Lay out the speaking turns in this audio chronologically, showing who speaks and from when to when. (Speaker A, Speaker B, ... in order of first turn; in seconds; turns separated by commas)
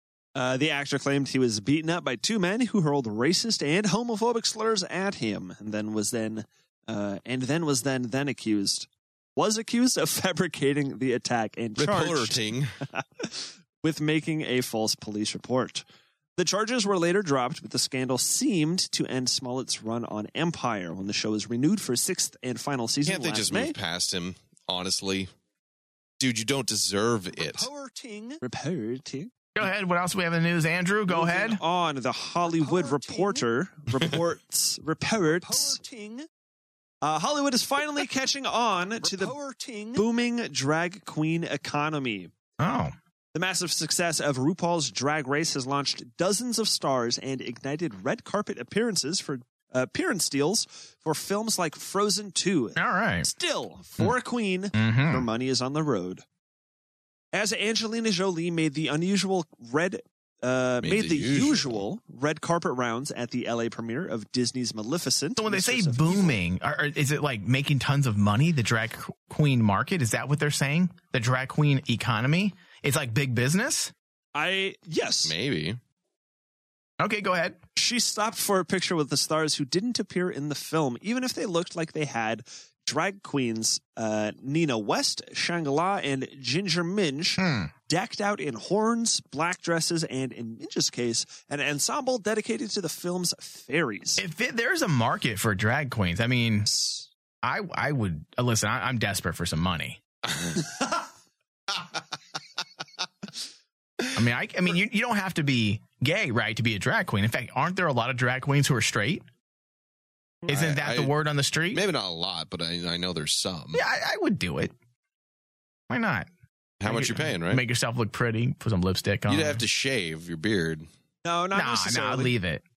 Speaker A: 0.3-15.8, Speaker B: 11.8-12.8, Speaker A: 16.4-23.8, Speaker B: 23.1-25.3, Speaker B: 26.2-27.7, Speaker A: 27.4-29.3, Speaker C: 29.6-31.6, Speaker A: 31.1-36.3, Speaker A: 37.0-42.3, Speaker C: 42.6-42.9, Speaker A: 43.3-56.2, Speaker C: 52.8-53.3, Speaker C: 54.8-55.3, Speaker A: 57.3-66.4, Speaker B: 60.8-61.8, Speaker C: 65.4-73.9, Speaker A: 74.3-75.3, Speaker B: 75.2-75.8, Speaker C: 77.0-77.6, Speaker A: 77.8-94.2, Speaker C: 87.4-87.7, Speaker C: 94.2-96.7, Speaker A: 96.7-97.1, Speaker C: 97.4-100.0, Speaker C: 104.1-109.2, Speaker B: 110.5-111.1, Speaker C: 110.5-111.8, Speaker B: 111.7-113.8, Speaker C: 113.7-114.7, Speaker C: 115.9-116.3, Speaker B: 116.8-117.6, Speaker C: 116.9-119.6, Speaker B: 119.3-120.9, Speaker A: 121.2-122.3, Speaker C: 121.5-122.6